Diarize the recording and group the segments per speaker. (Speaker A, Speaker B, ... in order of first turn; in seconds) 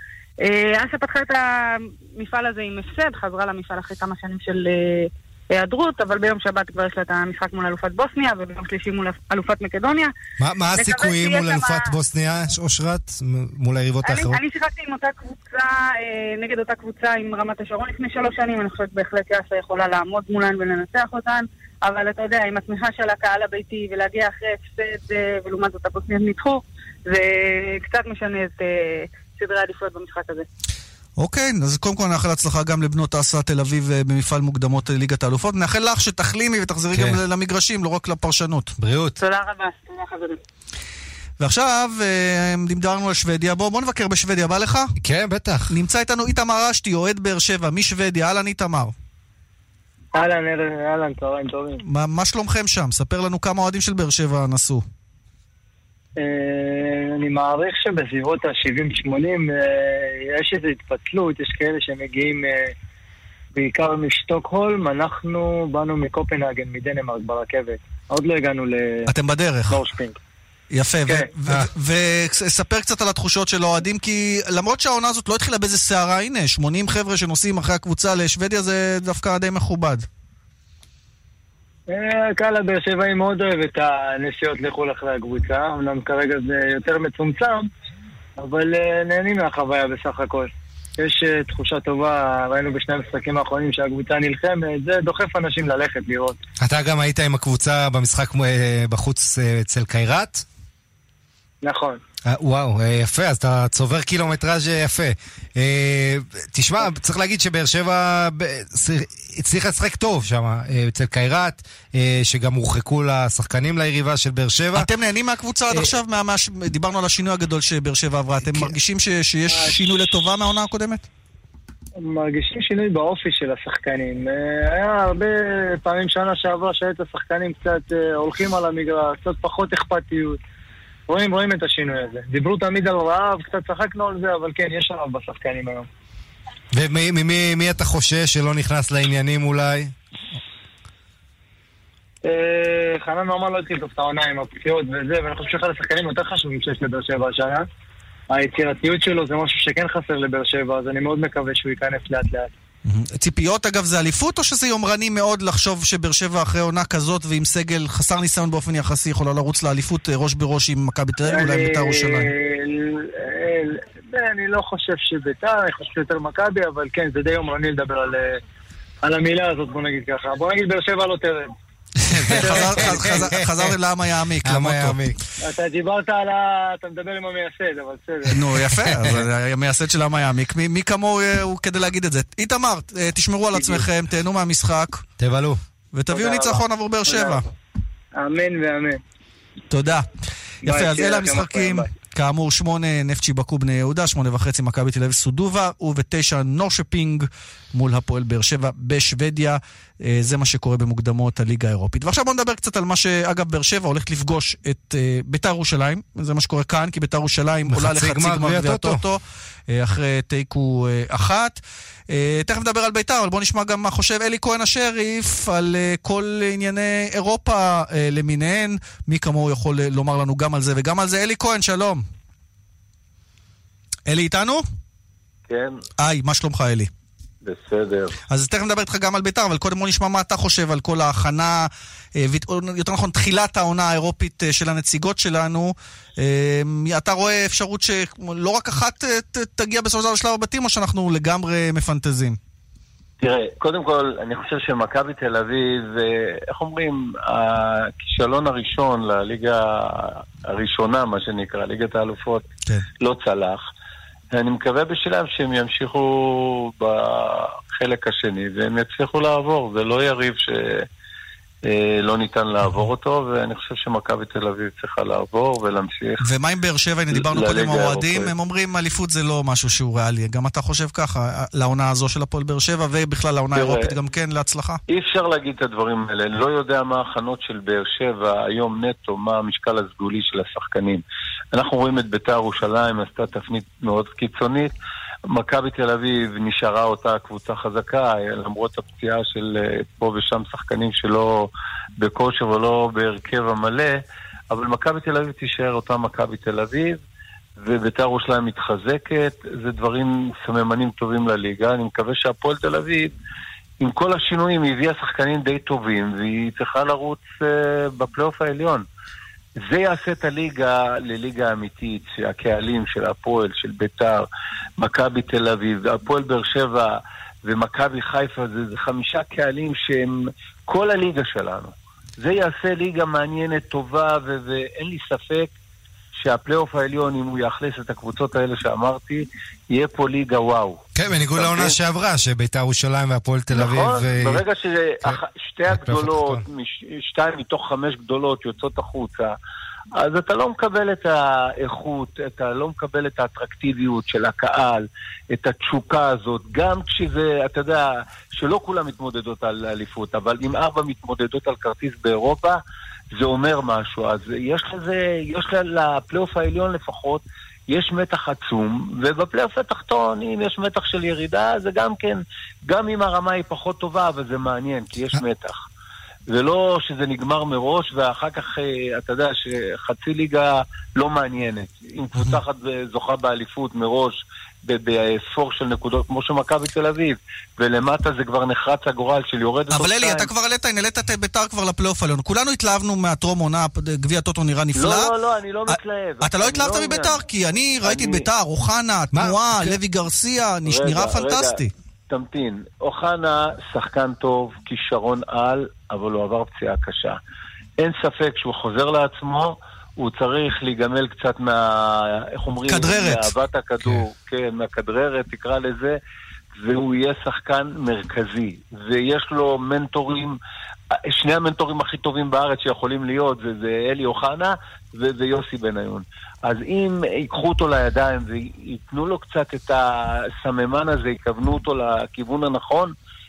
Speaker A: 0.4-10.1, 10.8-11.9, 14.0-30.5, 39.2-40.4
Speaker B: 10.4-14.4, 36.9-37.2, 38.8-39.2, 45.0-45.7, 96.6-100.4, 102.2-114.9, 118.4-118.7, 136.7-139.9, 172.3-173.7, 174.4-175.2, 178.8-179.2, 185.2-185.6, 207.7-209.0, 330.9-334.4, 335.0-336.4, 389.1-389.8
Speaker C: 31.2-38.7, 41.4-44.9, 45.7-48.9, 51.9-54.8, 69.1-69.8, 70.7-80.0, 114.7-121.1, 152.8-162.3, 172.0-175.0, 178.3-185.0, 185.9-187.4, 189.7-190.1, 190.6-222.0, 224.1-224.6, 226.0-226.9, 228.3-242.4, 266.2-274.8, 379.7-385.1, 385.7-391.7, 402.7-403.3
Speaker D: 50.1-51.8, 56.2-62.7, 63.5-69.1, 69.7-70.2, 81.9-87.7, 88.4-96.4, 101.6-102.0, 119.5-119.8, 122.0-130.4, 131.1-135.9, 142.2-147.6, 148.3-152.5, 161.2-168.4, 169.0-171.5, 172.4-173.2, 175.4-178.4, 186.1-187.4, 188.2-189.0, 190.6-191.9
Speaker E: 225.5-225.8, 227.4-228.2, 243.2-252.5, 253.0-253.6, 254.3-260.9, 261.6-266.2, 267.1-268.3, 273.5-273.9, 274.9-281.0, 281.5-284.7, 285.3-294.0, 294.5-297.0, 297.6-303.1, 303.8-308.8, 309.6-314.2, 314.8-316.9, 317.4-325.5, 326.2-330.8, 331.4-331.8, 333.5-339.3, 340.0-352.6, 353.1-365.6, 366.3-380.3, 384.8-387.2, 387.8-388.3, 390.6-391.6, 392.1-397.2, 397.8-406.0, 406.6-410.4, 411.1-422.9